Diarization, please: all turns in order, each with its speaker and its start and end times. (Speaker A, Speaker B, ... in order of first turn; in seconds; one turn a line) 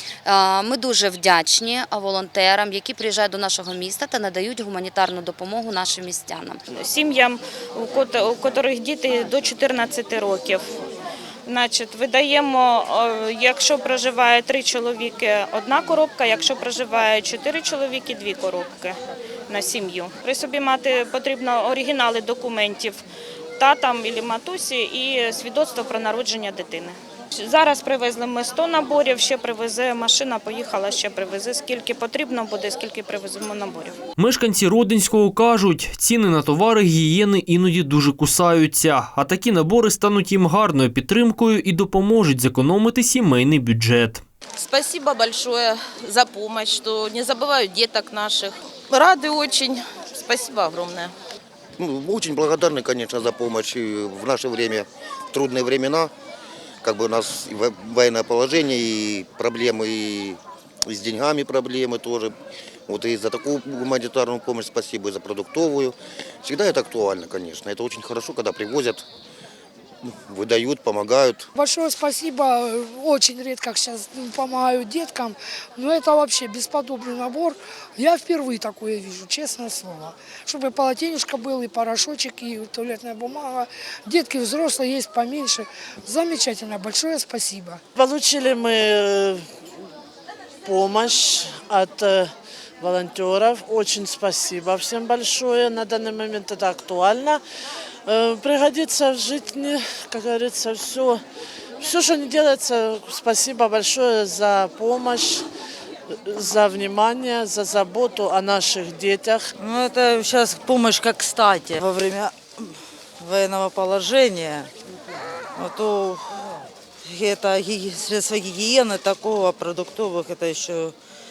Speaker A: 0.3-6.6
Speaker B: 6.7-10.7
Speaker B: 11.5-19.0
Speaker B: 19.5-23.0
Speaker B: 23.6-34.0
Speaker C: 34.2-44.2
Speaker D: 44.6-51.1
Speaker E: 51.8-56.1
Speaker E: 56.8-62.3
Speaker E: 62.9-69.0
Speaker E: 70.1-71.5
Speaker F: 71.6-87.8
Speaker G: 88.0-89.4
Speaker G: 90.7-97.4
Speaker G: 98.1-101.2
Speaker G: 101.8-105.5
Speaker G: 106.3-109.5
Speaker H: 109.6-114.7
Speaker H: 115.6-116.5
Speaker H: 117.1-121.0